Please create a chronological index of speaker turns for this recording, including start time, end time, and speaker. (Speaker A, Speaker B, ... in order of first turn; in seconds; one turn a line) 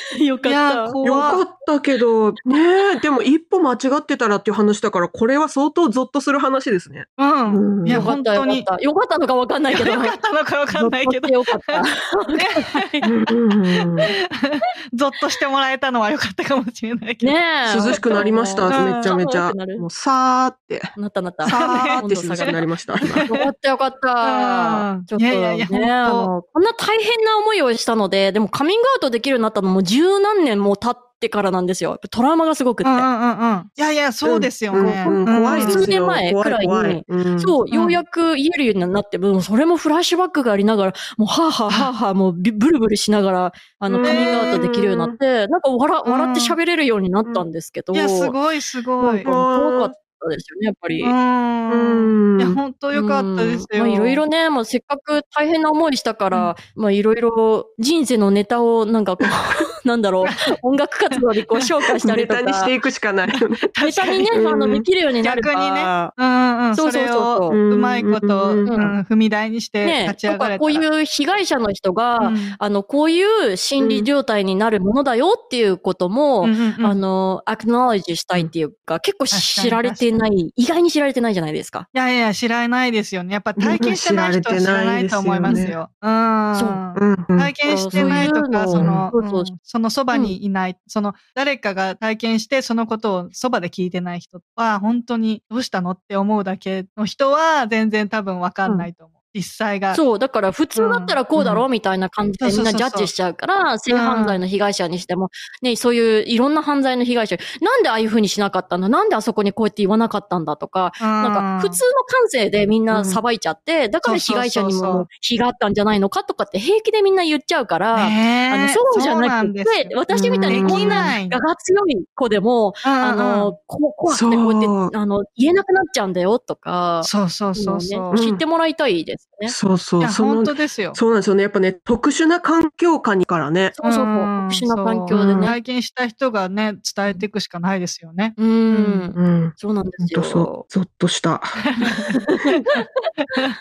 Speaker A: 0.1-1.0
Speaker B: 0.4-1.4
Speaker C: 1.0-8.1
Speaker B: 7.2-8.7
Speaker A: 7.9-10.2
Speaker B: 9.7-11.8
Speaker A: 10.7-13.1
Speaker B: 12.3-12.9
Speaker C: 13.0-14.1
Speaker B: 14.1-17.4
Speaker A: 17.2-19.9
Speaker C: 17.6-23.3
Speaker B: 17.9-19.1
Speaker A: 20.9-22.7
Speaker B: 21.5-22.5
Speaker B: 23.1-23.5
Speaker A: 23.2-33.1
Speaker B: 24.2-26.3
Speaker B: 32.8-35.9
Speaker C: 34.2-37.5
Speaker A: 34.8-48.3
Speaker B: 37.7-38.0
Speaker C: 43.9-45.1
Speaker B: 44.0-44.6
Speaker B: 46.0-46.5
Speaker B: 47.9-49.3
Speaker C: 49.0-49.9
Speaker A: 49.2-51.1
Speaker B: 51.0-54.2
Speaker C: 51.7-52.6
Speaker A: 52.9-62.7
Speaker C: 62.0-63.6
Speaker B: 63.7-64.3
Speaker A: 63.8-66.1
Speaker C: 64.3-64.8
Speaker B: 65.2-70.8
Speaker A: 66.7-67.6
Speaker C: 67.5-68.8
Speaker A: 68.6-68.9
Speaker A: 69.8-81.8
Speaker B: 72.2-72.6
Speaker C: 73.8-74.1
Speaker B: 76.4-77.0
Speaker B: 79.3-80.1
Speaker B: 81.9-100.0
Speaker C: 83.6-85.8
Speaker A: 86.5-86.8
Speaker C: 86.9-89.1
Speaker A: 87.7-89.5
Speaker A: 99.9-129.6
Speaker B: 100.7-101.2
Speaker B: 102.4-103.1
Speaker B: 103.9-104.4
Speaker B: 111.0-111.8
Speaker C: 112.9-113.2
Speaker B: 114.0-115.1
Speaker B: 117.9-120.0
Speaker C: 120.1-121.1
Speaker B: 120.5-121.4
Speaker B: 122.8-123.5
Speaker C: 124.1-124.9
Speaker B: 127.0-128.2
Speaker C: 128.1-128.4
Speaker C: 129.5-133.7
Speaker B: 130.0-131.0
Speaker A: 133.8-135.6
Speaker B: 133.8-139.1
Speaker C: 135.1-135.5
Speaker A: 138.4-140.6
Speaker C: 139.2-142.1
Speaker B: 141.7-142.1
Speaker A: 142.2-142.8